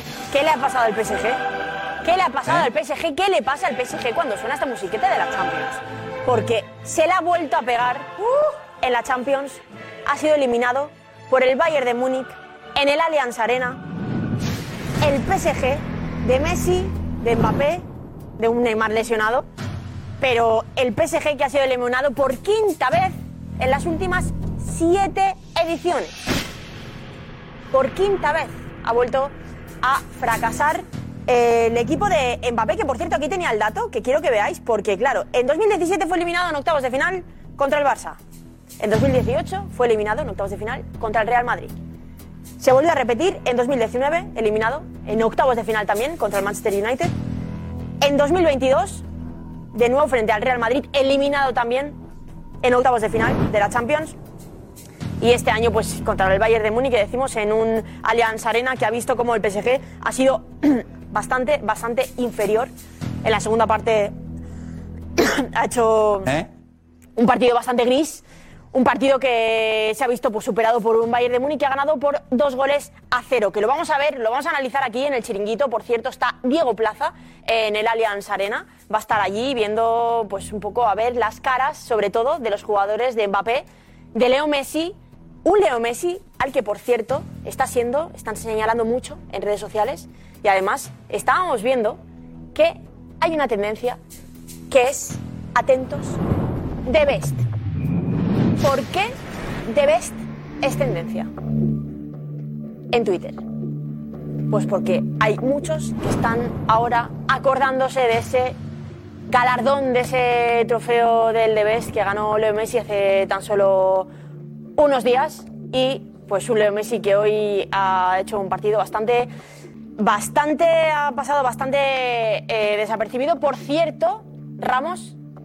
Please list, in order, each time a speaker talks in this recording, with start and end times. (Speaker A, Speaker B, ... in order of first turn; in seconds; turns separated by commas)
Speaker A: 0.3-1.4, Speaker A: 2.0-13.8, Speaker A: 15.0-17.8, Speaker A: 18.4-19.5, Speaker A: 20.2-26.1, Speaker A: 27.7-38.2, Speaker A: 38.8-41.7, Speaker A: 42.6-47.1, Speaker A: 48.0-49.0, Speaker A: 49.7-52.0, Speaker A: 52.6-54.1, Speaker A: 55.2-62.7, Speaker A: 63.2-64.1, Speaker A: 65.2-66.3, Speaker A: 67.2-92.0, Speaker A: 92.5-94.0, Speaker A: 94.7-96.2, Speaker A: 96.8-97.4, Speaker A: 98.6-101.3, Speaker A: 102.9-103.4, Speaker A: 104.5-108.6, Speaker A: 109.3-114.1, Speaker A: 114.8-119.3, Speaker A: 120.0-125.2